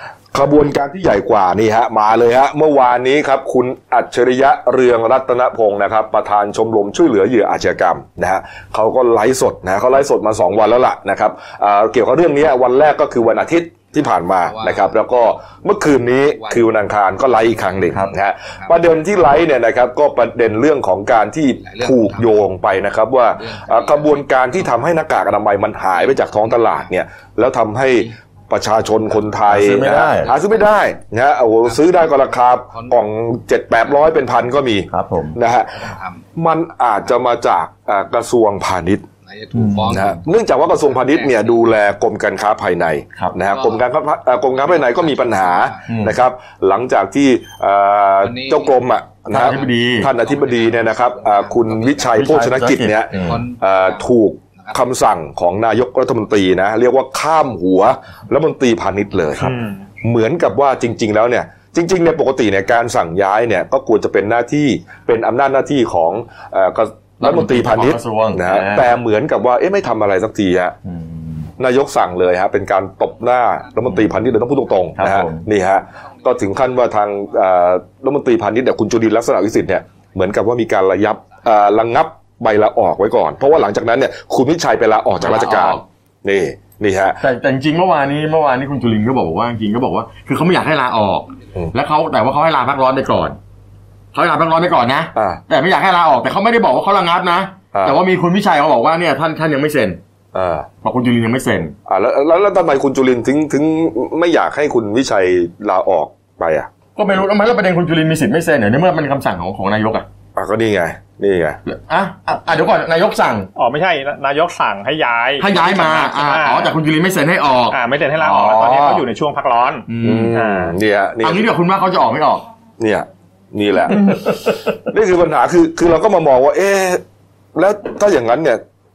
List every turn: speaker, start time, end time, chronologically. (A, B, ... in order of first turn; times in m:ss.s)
0:00.3-0:39.1 A
0:14.5-0:15.0 B
0:21.7-0:22.2 B
0:23.5-0:24.2 B
0:29.5-0:30.3 C
0:34.9-0:35.4 C
0:35.8-0:36.2 B
0:39.3-0:40.2 B
0:39.6-0:39.9 C
0:39.9-1:10.8 A
0:40.8-0:41.6 B
0:44.6-0:45.9 B
0:45.9-0:46.2 C
0:48.2-0:48.7 B
0:49.3-0:50.1 C
0:50.0-0:52.2 B
0:52.1-0:53.4 C
0:53.1-0:54.0 B
0:59.5-0:59.8 D
1:07.2-1:08.9 C
1:10.8-1:11.4 C
1:11.6-1:27.2 A
1:15.0-1:15.5 C
1:25.2-1:25.8 C
1:27.2-1:33.4 C
1:34.1-1:40.0 C
1:37.7-1:38.0 A
1:40.3-1:40.7 A
1:40.8-1:41.8 C
1:41.9-1:46.7 A
1:47.0-1:50.1 C
1:50.4-1:51.6 A
1:51.7-1:53.5 C
1:53.6-1:56.7 D
1:55.4-1:58.8 C
1:57.7-2:00.8 D
1:58.5-1:59.0 A
1:59.9-2:00.4 C
2:00.0-2:01.5 A
2:01.2-2:02.4 C
2:02.8-2:04.2 A
2:04.9-2:07.0 A
2:07.6-2:08.6 A